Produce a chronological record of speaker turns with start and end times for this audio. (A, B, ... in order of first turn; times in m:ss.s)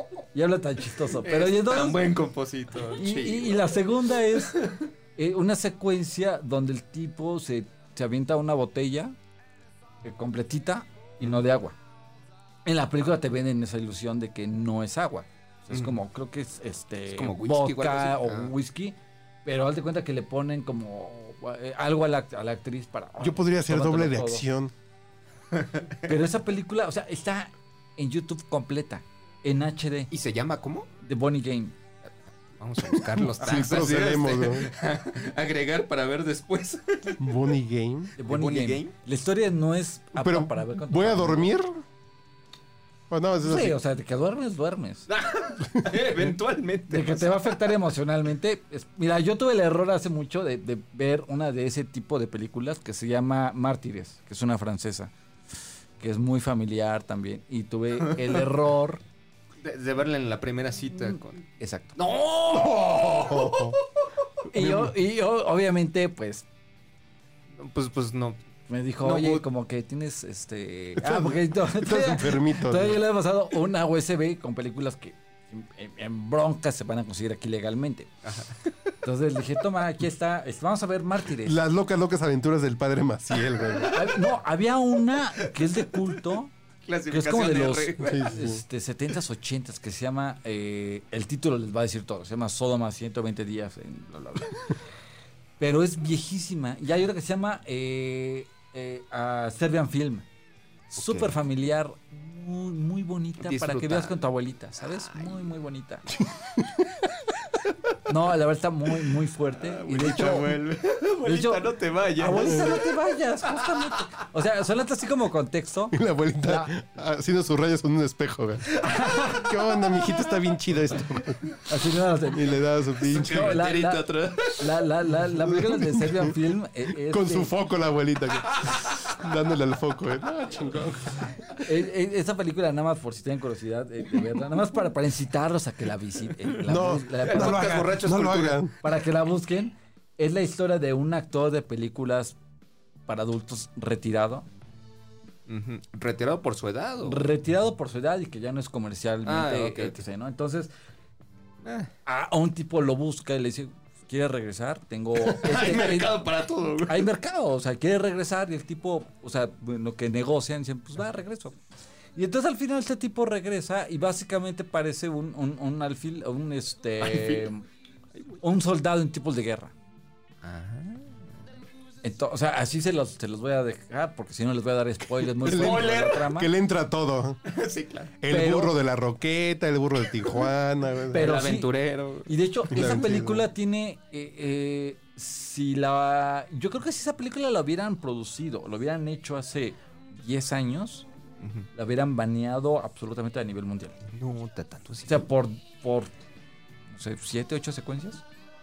0:00.3-0:02.2 A
0:01.2-0:03.6 B
0:02.9-0:09.2 A
0:10.0-0:11.8 A
0:12.6-0:24.4 A
0:17.1-0:18.5 B
0:23.2-0:24.7 C
0:25.5-0:25.8 B
0:26.1-0:30.1 A
0:30.1-0:30.9 B
0:31.0-0:31.8 A
0:32.6-0:37.2 B
0:33.2-0:34.7 C
0:37.2-0:38.1 C
0:38.2-0:41.5 A
0:38.3-0:38.9 B
0:40.2-0:41.8 C
0:43.1-0:43.8 C
0:43.4-0:45.1 A
0:45.1-0:47.6 B
0:46.9-0:55.1 A
0:56.0-0:59.0 A
0:59.6-1:03.7 B
1:02.5-1:03.8 C
1:04.5-1:06.4 A
1:04.5-1:04.9 C
1:07.6-1:08.4 B
1:08.7-1:18.1 A
1:09.0-1:09.4 B
1:11.0-1:13.0 C
1:18.2-1:18.6 B
1:19.0-1:21.6 A
1:21.4-1:24.0 C
1:23.7-1:24.0 B
1:23.9-1:26.5 A
1:25.6-1:25.8 B
1:26.8-1:28.3 B
1:27.1-1:34.8 A
1:28.0-1:28.6 C
1:35.6-1:40.2 A
1:40.9-1:46.1 A
1:43.4-1:44.2 B
1:44.8-1:45.4 B
1:46.1-1:46.9 C
1:48.1-1:50.6 A
1:49.6-1:52.9 B
1:51.2-1:56.7 A
1:52.4-1:52.7 C
1:55.9-2:01.4 C
1:58.8-1:59.5 A
2:01.7-2:07.5 A
2:02.3-2:03.6 C
2:03.0-2:04.7 B
2:05.5-2:06.3 C
2:07.0-2:11.7 C
2:11.6-2:18.0 A
2:16.6-2:18.7 C
2:16.9-2:18.6 B
2:18.8-2:22.4 A
2:23.1-2:24.5 A
2:25.5-2:27.2 B
2:27.0-2:30.7 A
2:29.2-2:30.0 B
2:31.6-2:31.9 B
2:32.1-2:36.3 A
2:35.3-2:37.1 B
2:36.9-2:41.6 A
2:42.2-2:47.6 A
2:47.0-2:47.5 B
2:48.4-2:49.7 A
2:50.4-2:51.2 B
2:52.0-2:56.5 A
2:55.4-2:57.4 C
2:55.4-2:56.3 B
2:57.5-2:58.2 B
2:58.2-3:01.3 C
2:58.3-2:58.7 A
3:01.1-3:02.9 B
3:01.1-3:11.1 A
3:02.7-3:03.5 C
3:11.8-3:14.0 A
3:14.1-3:15.3 B
3:15.1-3:16.1 A
3:16.9-3:18.2 A